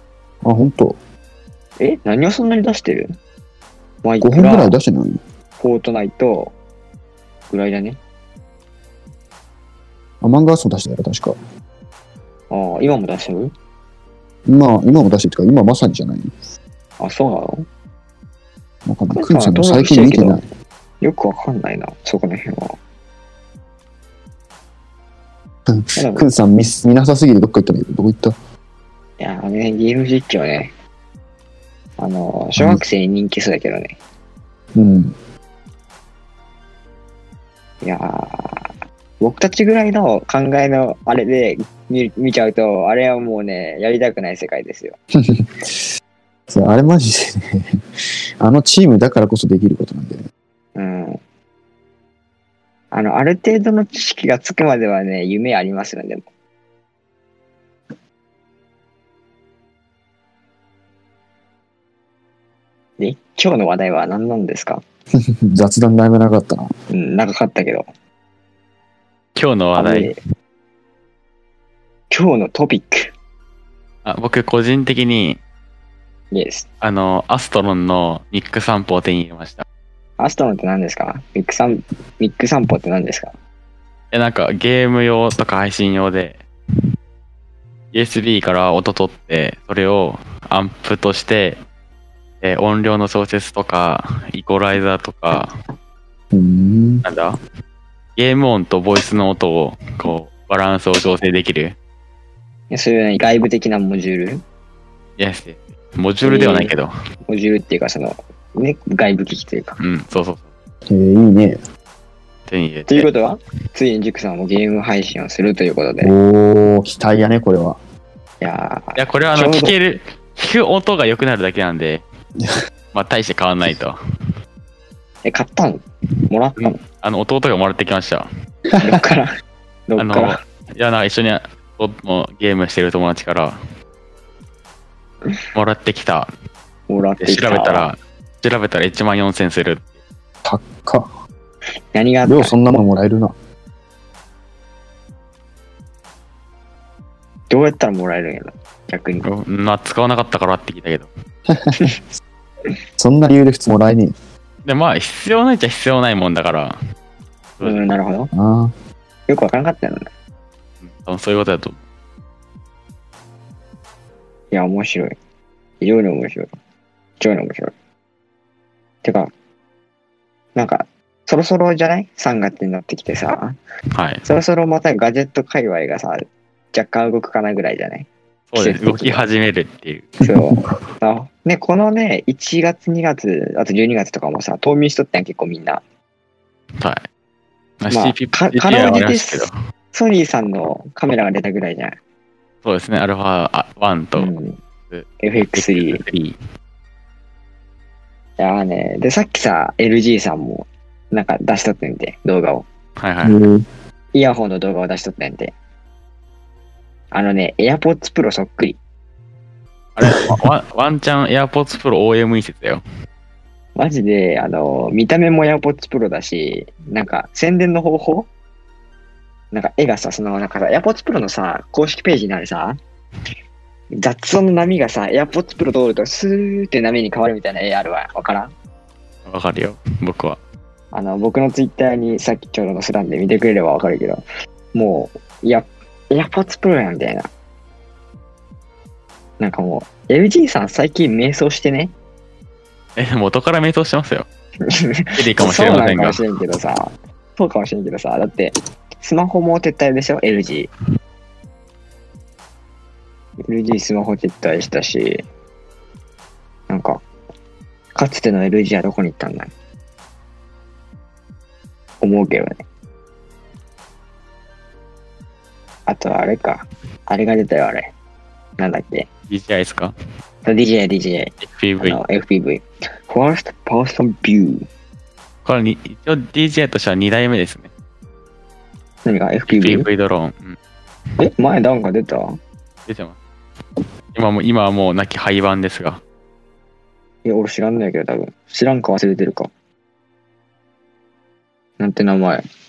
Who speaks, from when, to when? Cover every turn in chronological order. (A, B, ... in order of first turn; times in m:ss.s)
0:00.4-0:01.0 A
0:01.8-0:03.1 B
0:04.0-0:04.8 B
0:04.2-0:05.2 A
0:05.6-0:06.5 B
0:07.5-0:08.0 B
0:10.2-0:11.4 A
0:12.5-0:13.5 B
0:14.5-0:16.4 A
0:17.0-0:17.6 B
0:18.9-0:20.4 A
0:19.1-0:20.4 B
0:21.0-0:22.8 B
0:25.7-0:28.4 A
0:26.0-0:26.2 B
0:29.2-0:30.7 B
0:32.0-0:34.0 B
0:34.8-0:35.1 A
0:37.8-0:38.6 B
0:39.2-0:45.0 B
0:45.1-0:45.9 A
0:46.5-0:47.8 A
0:48.4-0:50.2 A
0:50.8-0:51.2 B
0:52.9-0:56.2 B
1:03.0-1:04.8 B
1:05.5-1:06.7 A
1:06.9-1:07.9 B
1:09.4-1:10.1 C
1:09.8-1:10.2 B
1:12.1-1:13.1 B
1:14.0-1:15.4 C
1:16.3-1:16.6 B
1:16.8-1:19.6 C
1:20.2-1:23.4 B
1:24.1-1:26.4 C
1:27.9-1:31.6 C
1:32.4-1:35.5 C
1:36.3-1:37.0 A
1:37.0-1:37.4 C
1:38.2-1:41.8 C
1:42.7-1:44.4 B
1:45.2-1:46.9 C
1:46.2-1:46.7 B
1:47.3-1:49.8 B
1:49.8-1:50.5 C
1:50.9-1:51.6 A
1:52.5-1:53.1 C
1:52.9-1:56.1 B
1:56.0-1:57.8 A
1:58.4-1:59.7 B
1:59.0-2:02.0 C
2:02.9-2:04.0 C
2:05.2-2:06.8 B
2:06.6-2:08.3 C
2:08.8-2:09.3 B
2:09.9-2:10.4 B
2:10.0-2:13.6 C
2:15.5-2:16.3 C
2:16.9-2:17.9 B
2:17.2-2:20.0 C
2:20.4-2:21.1 A
2:21.9-2:22.5 B
2:22.3-2:23.3 A
2:27.5-2:29.2 B
2:29.2-2:31.1 C
2:31.5-2:31.8 A
2:33.0-2:34.1 A
2:34.6-2:36.8 C
2:37.6-2:37.9 C
2:37.6-2:38.3 B
2:38.3-2:38.7 A
2:39.3-2:40.1 B
2:40.8-2:41.8 C
2:44.5-2:45.1 B
2:45.8-2:46.5 B
2:47.2-2:47.7 B
2:49.0-2:49.3 B
2:50.5-2:53.6 B
2:54.0-2:54.2 C
2:54.2-2:59.2 B
2:58.5-3:00.1 C
3:00.2-3:05.8 B
3:06.8-3:07.0 C
3:07.8-3:09.5 C
3:07.9-3:12.0 B
3:12.6-3:14.3 C
3:14.2-3:14.6 B
3:14.9-3:16.4 C
3:15.2-3:16.0 B
3:18.4-3:22.6 B
3:23.0-3:23.4 C
3:23.2-3:23.6 A
3:24.1-3:25.5 B
3:27.1-3:28.8 B
3:30.0-3:32.8 C
3:33.8-3:38.3 B
3:39.5-3:42.8 B
3:43.9-3:48.5 B
3:49.2-3:50.4 C
3:50.9-3:54.2 B
3:54.7-3:57.3 B
3:59.4-4:01.9 B
4:03.0-4:04.3 C
4:04.7-4:10.7 B
4:05.2-4:06.2 C
4:13.5-4:15.2 B
4:16.7-4:17.0 B
4:18.0-4:19.5 B
4:22.0-4:22.6 B
4:25.9-4:27.9 B
4:28.6-4:29.1 B
4:29.3-4:29.9 C
4:30.4-4:34.6 B
4:31.4-4:32.0 C
4:35.4-4:37.7 C
4:39.0-4:39.9 B
4:39.5-4:40.6 C
4:41.2-4:42.4 B
4:42.9-4:43.2 C
4:44.1-4:46.0 C
4:47.2-4:49.5 B
4:51.8-4:52.4 B